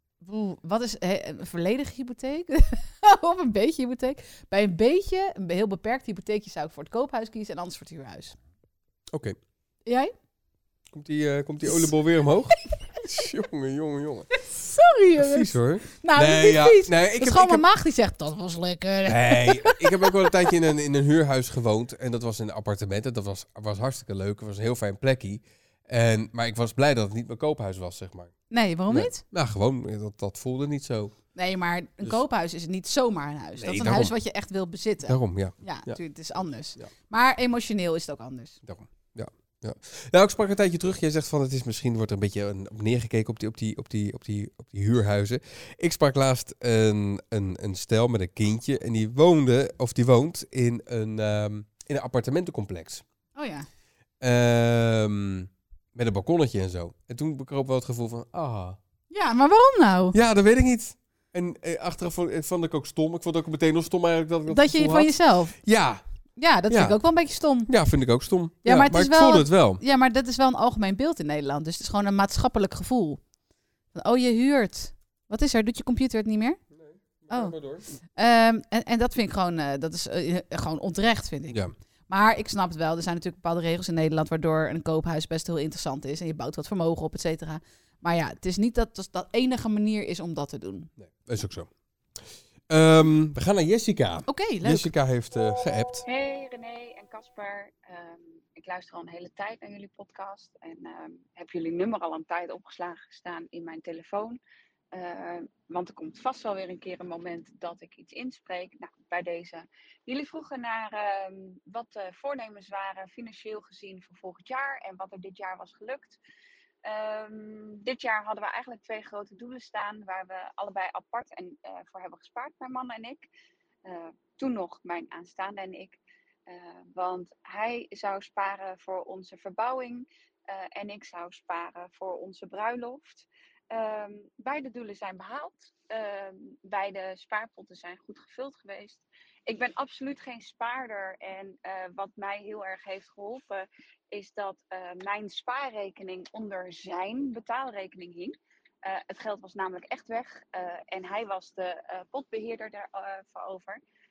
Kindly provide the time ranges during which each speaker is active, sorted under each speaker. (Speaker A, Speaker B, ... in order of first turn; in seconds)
Speaker A: 0.2-8.4, 9.8-10.1, 14.3-20.1, 28.5-29.2, 31.3-38.6, 53.4-53.7, 59.1-60.1, 64.5-65.5, 66.4-67.7, 68.6-73.2, 73.9-76.6, 77.3-77.5, 78.2-90.9, 94.3-94.9
Speaker B: 9.1-9.4, 10.9-14.4, 15.2-17.6, 19.1-31.2, 33.6-34.1, 35.0-36.0, 38.6-53.0, 54.2-58.8, 60.1-66.0, 66.7-67.0, 67.7-69.8, 76.7-77.9, 91.0-91.7, 92.7-96.0
Speaker C: 96.1-104.4, 104.9-116.2, 116.8-123.3, 123.8-153.8